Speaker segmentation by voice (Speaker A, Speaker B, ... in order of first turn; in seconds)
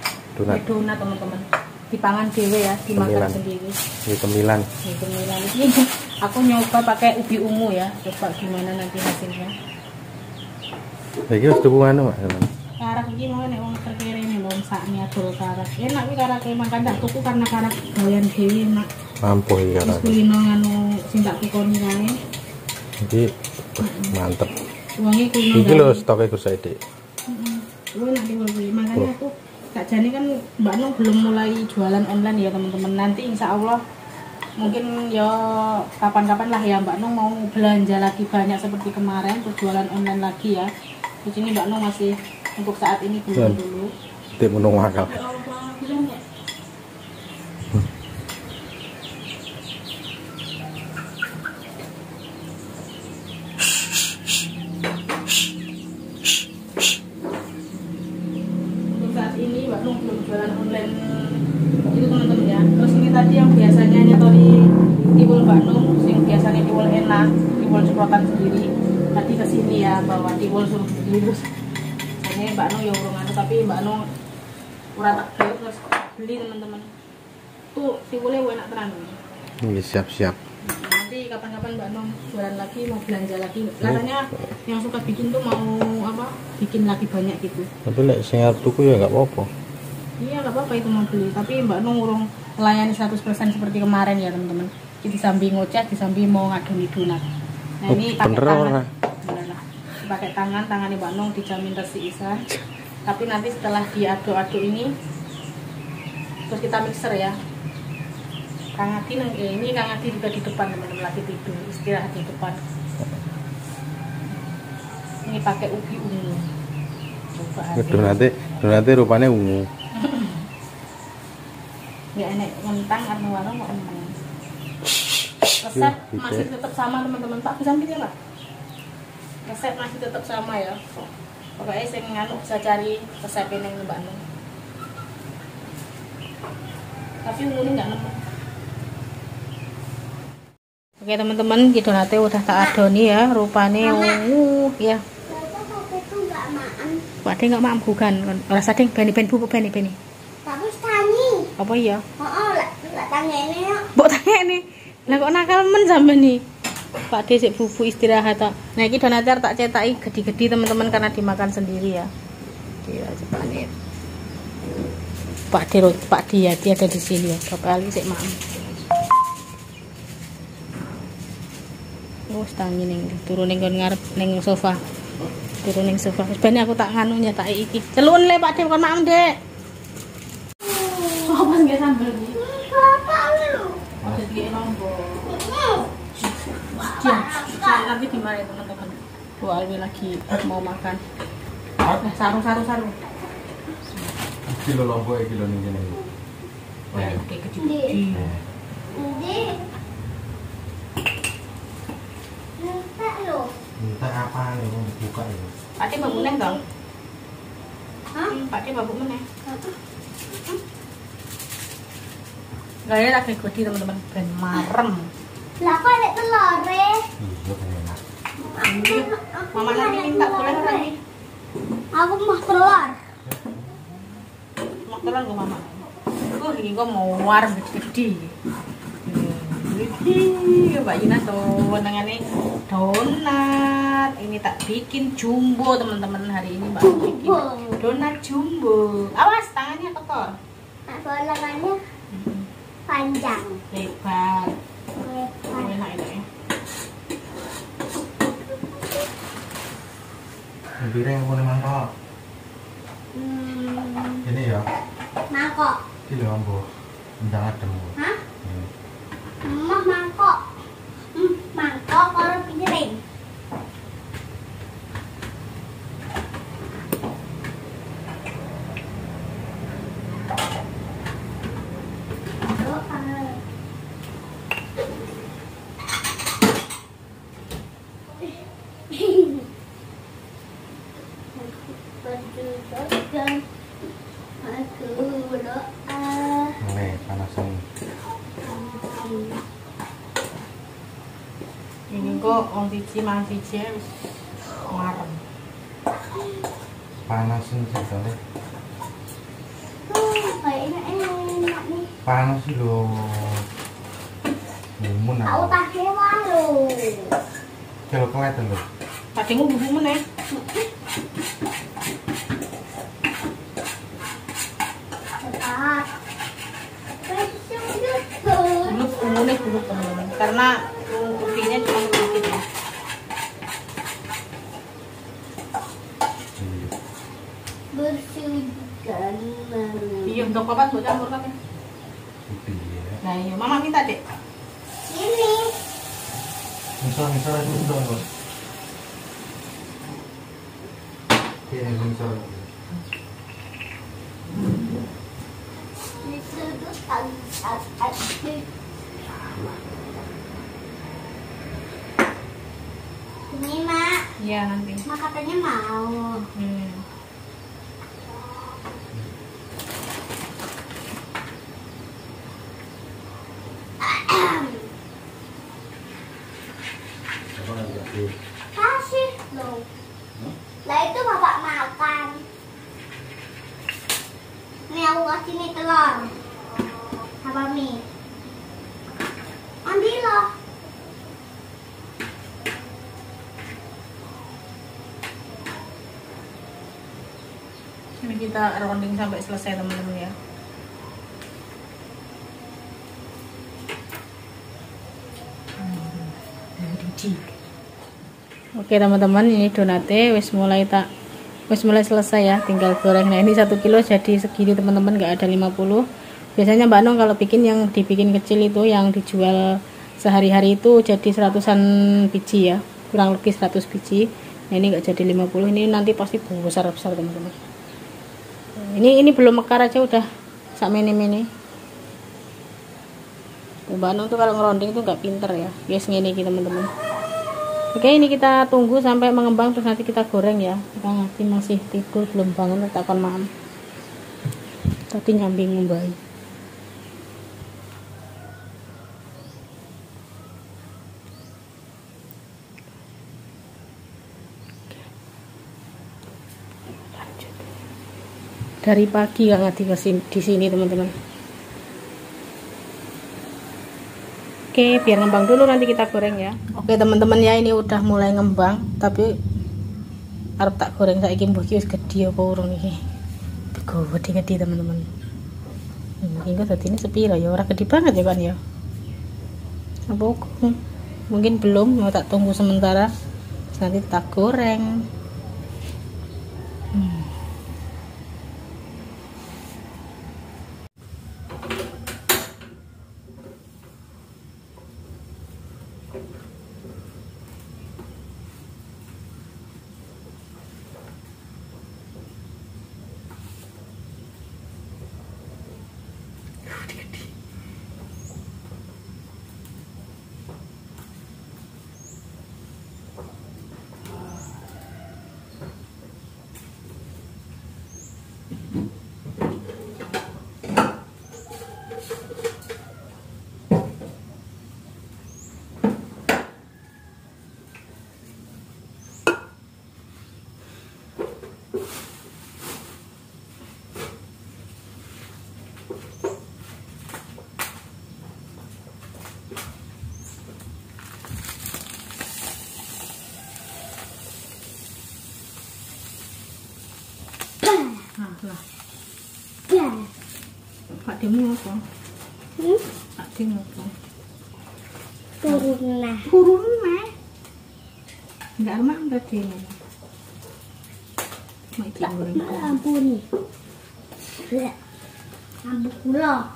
Speaker A: 0.3-0.6, 2.9-3.4, 4.1-4.7, 11.3-12.5, 19.2-20.2, 23.0-24.5, 25.5-26.8, 43.3-43.6, 44.4-45.2, 79.6-80.4, 87.8-89.5, 97.9-98.9, 117.8-119.7, 125.7-126.5, 194.5-196.0, 196.9-197.2, 198.1-198.4, 203.8-205.5, 217.2-218.0, 250.8-251.9, 254.2-254.7, 256.1-256.7, 257.2-258.7, 286.6-287.6, 297.1-298.2, 302.0-303.4, 304.8-305.6, 307.9-308.6, 326.4-326.7, 332.3-333.0, 336.8-338.1, 341.5-342.5, 349.2-349.6, 367.3-368.1
Speaker B: 0.5-3.8, 4.8-9.5, 12.8-18.9, 19.8-22.1, 23.8-24.1, 25.0-26.0, 27.3-33.8, 34.6-40.7, 41.2-43.9, 45.0-46.2, 58.9-64.5, 65.1-71.5, 72.2-74.0, 74.9-76.9, 77.7-79.2, 80.6-87.7, 90.2-97.2, 97.8-102.4, 103.0-104.9, 106.5-107.3, 108.8-112.6, 115.2-116.5, 117.3-118.6, 119.9-120.5, 122.1-124.2, 125.6-128.1, 129.4-130.8, 131.6-134.2, 137.2-138.2, 141.0-145.0, 147.2-150.0, 151.6-152.0, 153.9-156.4, 157.0-162.1, 162.8-163.7, 165.5-168.4, 172.3-174.8, 175.6-179.3, 181.2-182.4, 184.0-185.3, 186.8-191.0, 191.8-192.9, 196.9-198.3, 205.8-206.6, 208.3-209.2, 212.8-215.1, 218.6-220.9, 224.8-228.3, 229.0-240.3, 242.1-242.5, 243.7-244.5, 245.5-246.2, 291.9-294.1, 294.7-295.2, 309.1-310.0, 318.6-322.4, 330.0-331.3, 333.0-334.0, 354.2-354.8, 356.4-356.9, 388.0-390.1, 395.6-397.3, 398.6-400.9, 401.5-405.8, 406.4-409.4, 410.0-417.4, 418.6-421.3, 423.7-426.7, 427.7-433.3, 434.9-436.0, 446.9-447.4, 448.6-450.9, 454.5-459.1, 460.4-462.8, 463.5-464.9, 466.0-468.4, 469.9-470.6, 471.1-472.9, 473.5-474.7, 476.7-477.1, 496.5-497.0, 537.9-538.4, 540.7-541.6, 543.0-543.7, 546.0-546.9, 548.4-549.5, 551.5-552.6
Speaker C: 142.5-142.8, 143.8-144.2, 145.3-147.0, 150.4-151.5, 152.2-153.9, 180.6-181.5, 182.3-183.9, 185.3-185.9, 186.7-187.9, 197.6-198.0, 198.9-199.6, 202.6-203.5, 206.0-206.6, 209.4-209.8, 215.6-217.1, 218.4-220.9, 221.9-223.0, 236.8-238.0, 240.9-241.8, 242.9-243.6, 245.0-245.8, 253.1-254.3, 255.3-255.8, 259.4-260.4, 261.1-263.0, 272.5-273.4, 278.9-279.4, 281.3-283.4, 284.4-286.6, 288.4-289.4, 291.9-292.4, 299.9-301.9, 305.2-307.2, 310.3-310.7, 315.2-315.9, 317.0-318.8, 327.7-330.3, 334.8-335.5, 346.0-348.5, 353.3-354.1, 354.9-356.2, 363.8-364.7, 368.5-369.6, 370.6-372.2, 374.7-376.1, 377.2-377.8, 379.6-380.3, 537.4-537.8, 539.5-539.9, 542.4-542.6, 545.2-546.1, 551.8-553.0, 554.3-554.5, 555.4-556.3